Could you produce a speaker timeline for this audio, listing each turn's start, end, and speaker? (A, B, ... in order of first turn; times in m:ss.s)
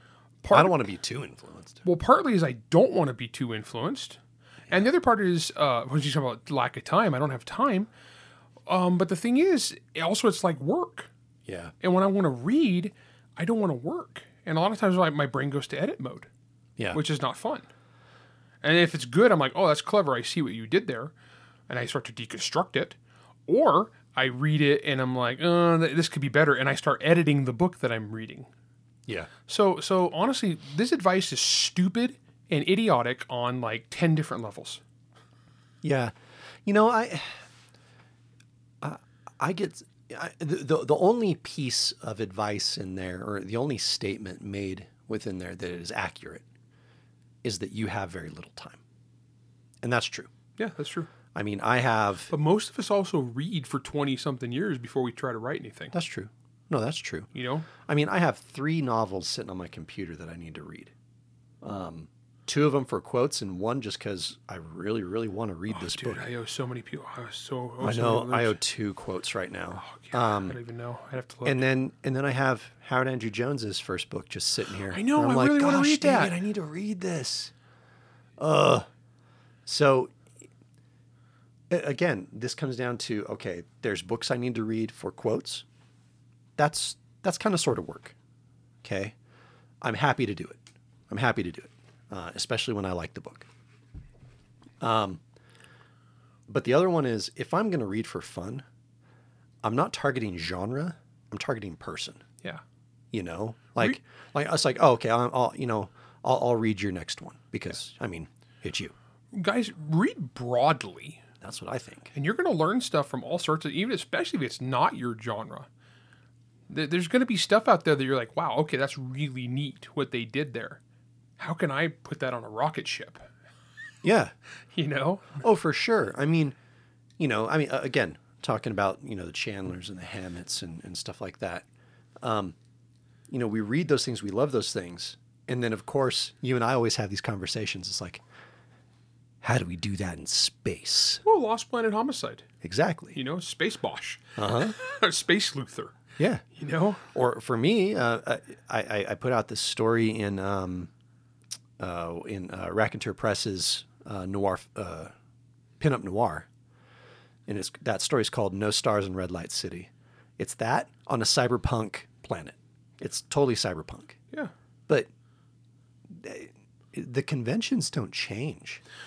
0:00.4-0:00.8 A
0:00.5-0:01.8 B
0:01.8-0:04.2 A
0:04.7-0:07.9 A
0:08.7-0:11.1 A
0:11.5-0:11.7 B
0:11.8-0:16.3 A
0:16.9-0:17.7 A
0:18.6-0:21.1 A
0:21.7-0:28.5 A
0:29.5-0:34.8 A
0:35.8-0:36.1 B
0:36.6-0:37.4 B
0:38.8-0:46.4 B
0:47.4-0:48.8 B
0:49.8-0:50.3 B
0:50.6-0:51.1 A
0:51.3-0:52.3 B
0:52.3-0:55.9 A
0:55.9-0:57.3 B
0:57.4-0:57.7 A
0:57.8-1:00.9 B
1:01.6-1:06.2 B
1:05.7-1:08.6 A
1:07.8-1:10.6 B
1:09.8-1:11.6 A
1:11.4-1:17.5 B
1:14.9-1:16.4 A
1:18.4-1:18.9 B
1:19.7-1:20.1 B
1:21.7-1:25.6 B
1:26.6-1:28.2 B
1:28.8-1:29.2 B
1:29.8-1:33.5 B
1:34.8-1:35.2 B
1:36.5-1:38.6 B
1:39.6-1:42.2 B
1:43.1-1:48.9 B
1:49.3-1:51.2 A
1:51.4-1:52.1 B
1:52.1-1:55.7 A
1:56.7-2:00.8 A
2:01.4-2:03.2 A
2:04.0-2:04.3 B
2:04.7-2:05.4 A
2:05.4-2:06.6 B
2:07.2-2:11.7 B
2:12.2-2:12.6 B
2:13.3-2:18.2 B
2:19.4-2:21.2 B
2:21.2-2:22.5 A
2:22.6-2:23.2 B
2:23.2-2:26.0 A
2:24.4-2:24.8 B
2:26.2-2:26.4 B
2:26.6-2:27.0 A
2:27.1-2:30.9 B
2:31.8-2:35.1 B
2:35.8-2:36.5 B
2:37.5-2:44.2 B
2:46.1-2:48.8 B